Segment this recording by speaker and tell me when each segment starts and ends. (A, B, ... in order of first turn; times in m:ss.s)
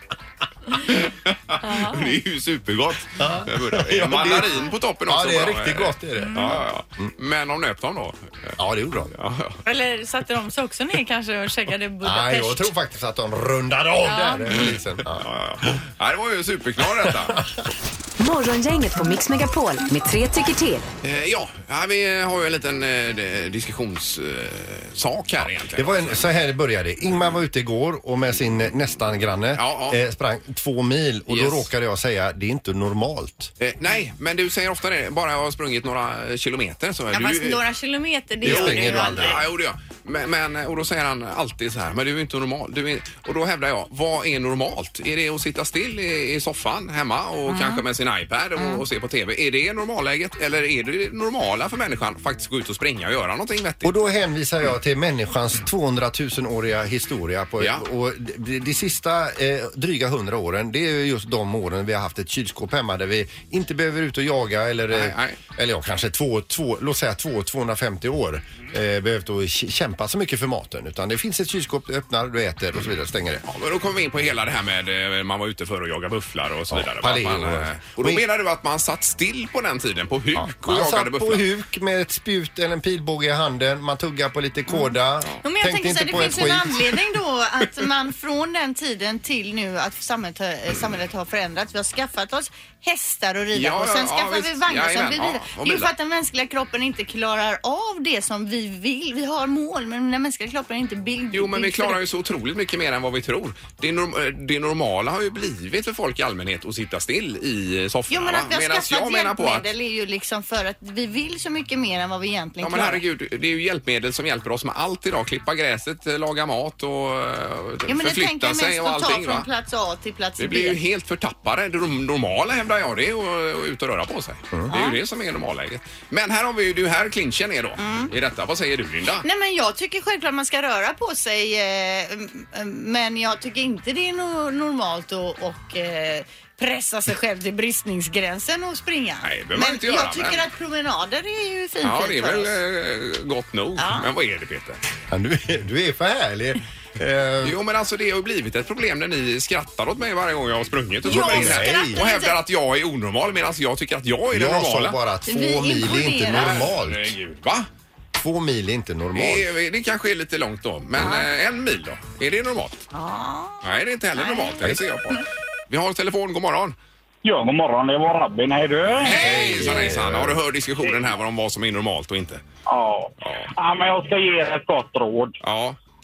0:00.8-0:08.6 A
0:01.6-0:02.2 B
0:03.2-0:06.6 C
0:06.2-0:06.6 B
0:08.6-0:09.1 C
0:09.1-0:09.6 A
0:09.6-0:12.7 B
0:12.0-0:15.2 C
0:14.0-0:14.6 B
0:14.5-0:17.6 A
0:17.0-0:17.3 C
0:18.2-0:20.9 D
0:21.0-0:26.3 A
0:25.4-0:33.5 C
0:29.6-0:30.0 A
0:31.3-0:31.7 A
0:33.6-0:37.6 A
0:37.1-0:39.4 B
0:38.4-0:39.4 C
0:38.4-0:54.0 A
0:47.5-0:47.8 B
0:48.6-0:48.8 B
0:53.8-1:13.4 C
0:57.6-0:57.8 A
1:04.9-1:05.4 A
1:13.5-1:21.5 A
1:16.7-1:18.2 C
1:20.3-1:26.8 C
1:24.7-1:42.0 B
1:33.5-1:35.9 A
1:41.3-1:49.7 A
1:48.1-1:53.0 B
1:52.6-1:59.5 A
1:57.8-2:00.8 B
2:00.4-2:09.2 A
2:04.7-2:05.0 B
2:07.8-2:08.1 B
2:09.2-2:22.6 B
2:19.2-2:20.4 A
2:21.8-2:24.8 A
2:23.8-2:24.1 B
2:25.1-2:27.6 C
2:27.4-2:35.0 A
2:31.0-2:32.0 C
2:31.0-2:32.4 B
2:34.3-2:37.2 C
2:35.2-2:36.7 B
2:36.3-2:37.7 A
2:38.2-2:39.5 C
2:39.1-2:42.8 A
2:41.0-2:41.2 B
2:42.9-2:45.2 B
2:43.6-2:46.8 A
2:47.2-2:49.7 E
2:49.0-2:52.4 A
2:49.0-2:50.4 C
2:50.8-2:51.1 E
2:52.6-2:55.4 E
2:53.2-2:53.5 A
2:55.4-2:55.8 A